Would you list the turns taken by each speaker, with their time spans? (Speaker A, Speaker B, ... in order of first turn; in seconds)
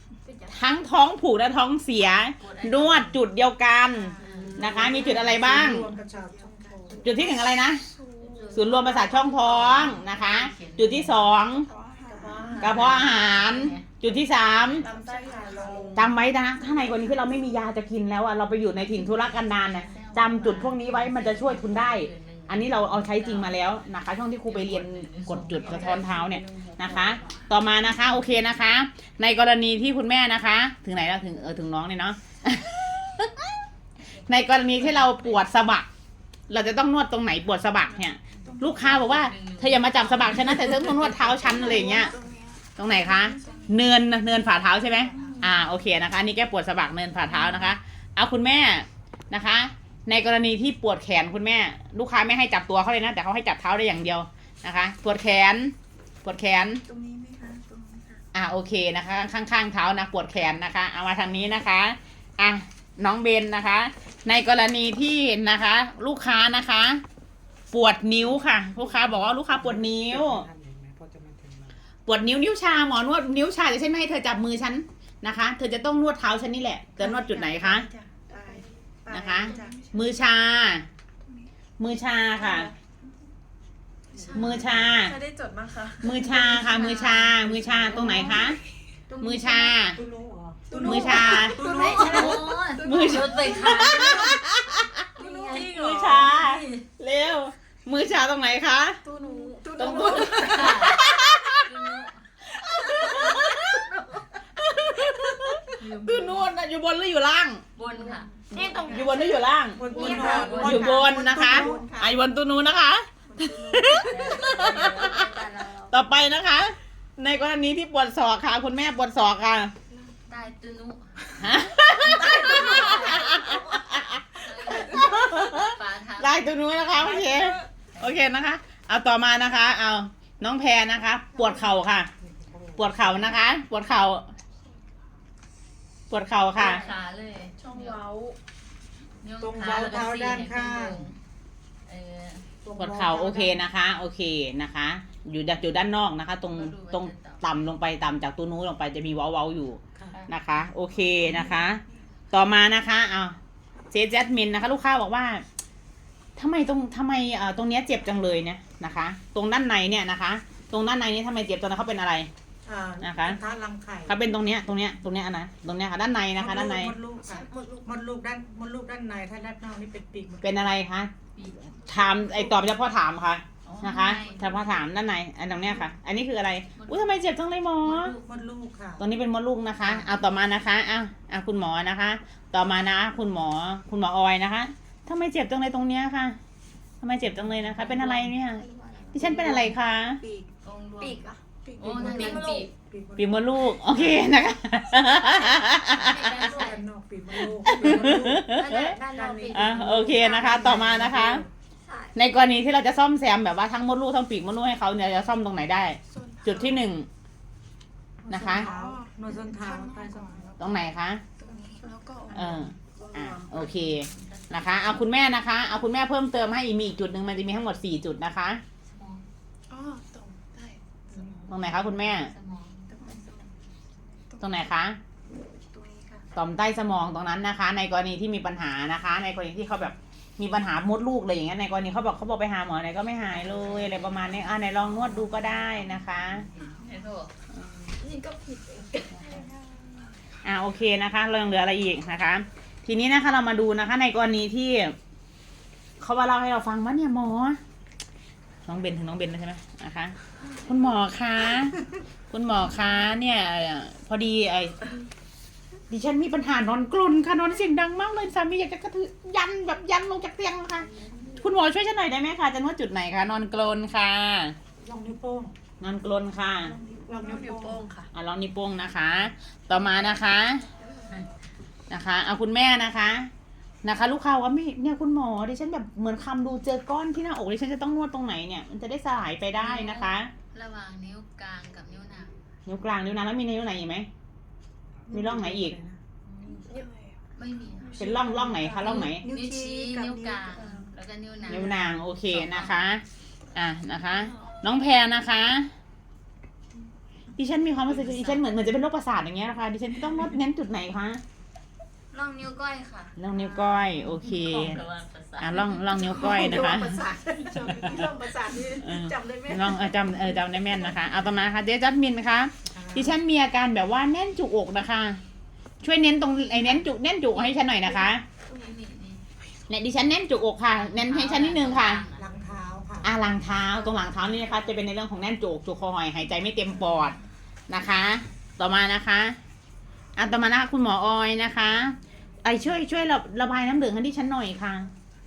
Speaker A: 0.2-0.8, 4.8-5.2, 6.9-7.3, 8.2-10.1, 15.5-15.8, 99.2-99.7, 103.0-104.2, 108.5-112.1, 122.3-123.9, 187.8-189.7, 191.0-191.4, 192.0-192.7, 196.1-196.8, 198.5-200.5, 201.8-202.1, 237.9-239.6
Speaker B: 0.5-5.9, 7.0-7.8, 8.5-11.7, 12.6-14.9, 15.9-33.5, 34.2-35.9, 36.5-42.1, 42.8-56.8, 58.3-67.0, 67.7-70.5, 72.0-77.9, 79.1-80.8, 81.8-82.7, 84.3-85.1, 86.0-88.6, 89.2-90.0, 90.8-95.1, 95.6-99.0, 99.8-101.7, 102.4-104.0, 104.5-107.6, 108.5-115.3, 115.9-119.7, 121.4-132.1, 132.8-134.2, 136.1-136.8, 142.8-153.3, 153.9-155.4, 156.3-162.3, 163.0-163.4, 164.1-166.9, 170.4-171.1, 171.8-178.2, 179.0-186.4, 187.0-190.2, 193.2-196.6, 197.4-199.0, 199.5-201.4, 202.1-207.1, 208.3-208.7, 210.6-211.2, 212.3-218.6, 221.5-222.3, 224.4-225.0, 226.3-236.5, 240.4-244.9, 246.0-247.6, 248.7-251.8, 252.3-254.8, 255.9-264.6, 265.8-266.8, 268.1-270.6, 271.9-273.3, 273.8-280.3, 282.6-284.1, 285.1-285.7, 288.0-289.2, 291.5-293.0, 293.5-295.7, 297.4-301.2, 303.2-304.8, 305.4-307.0, 307.6-308.1, 308.7-315.2, 315.8-318.2, 319.7-322.0, 323.0-327.2, 327.7-329.4, 330.1-334.9
Speaker C: 2.4-3.2, 4.2-5.1, 9.3-11.4, 12.4-13.9, 19.0-27.4, 34.8-35.4, 38.8-42.1, 84.1-84.6, 86.6-87.4, 91.6-94.4, 95.2-96.8, 99.8-101.0, 101.5-102.2, 105.8-106.5, 107.8-108.3, 109.9-111.2, 113.9-116.0, 120.3-121.3, 122.0-123.7, 124.3-126.5, 136.5-138.0, 139.2-141.2, 141.8-142.4, 146.5-147.4, 171.3-171.8, 173.6-174.6, 176.8-177.2, 177.8-178.3, 179.8-180.2, 190.6-191.2, 191.8-192.7, 193.9-194.2, 195.8-196.8, 197.7-198.0, 213.3-215.0, 218.8-219.2, 221.9-223.0, 233.5-234.0, 236.5-237.3, 279.6-282.3, 287.4-288.0, 288.8-292.7, 297.9-298.4, 302.1-306.8, 307.5-308.1, 317.3-319.2, 320.8-322.4
Speaker D: 4.2-7.3, 12.1-13.2, 14.1-17.5, 25.5-26.2, 68.4-71.8, 78.3-79.8, 84.2-84.9, 87.3-88.5, 89.1-92.5, 108.9-109.1, 109.7-111.9, 113.3-113.9, 132.2-133.2, 139.4-141.1, 142.6-143.6, 162.6-164.2, 166.3-170.7, 178.2-179.0, 189.2-189.7, 191.9-194.1, 196.3-201.4, 208.2-210.6, 221.1-221.5, 264.8-265.5, 266.8-267.8, 285.1-286.0, 312.6-313.2, 322.1-323.1
Speaker E: 5.1-7.0, 7.8-8.8, 11.6-12.6, 14.8-16.1, 27.2-27.5, 38.4-39.2, 41.4-45.7, 47.3-47.7, 56.8-58.2, 77.0-80.3, 82.3-82.7, 84.1-87.1, 88.0-88.5, 90.7-93.7, 95.1-96.3, 99.0-101.1, 108.0-108.2, 123.1-123.3, 127.1-127.6, 137.6-138.4, 150.9-151.7, 172.0-172.5, 191.7-192.4, 206.1-206.8, 208.4-210.8, 211.4-213.2, 219.7-221.5, 222.9-223.5, 225.7-226.2, 239.6-240.0, 266.8-268.1, 286.3-287.2, 287.8-290.9, 306.2-311.1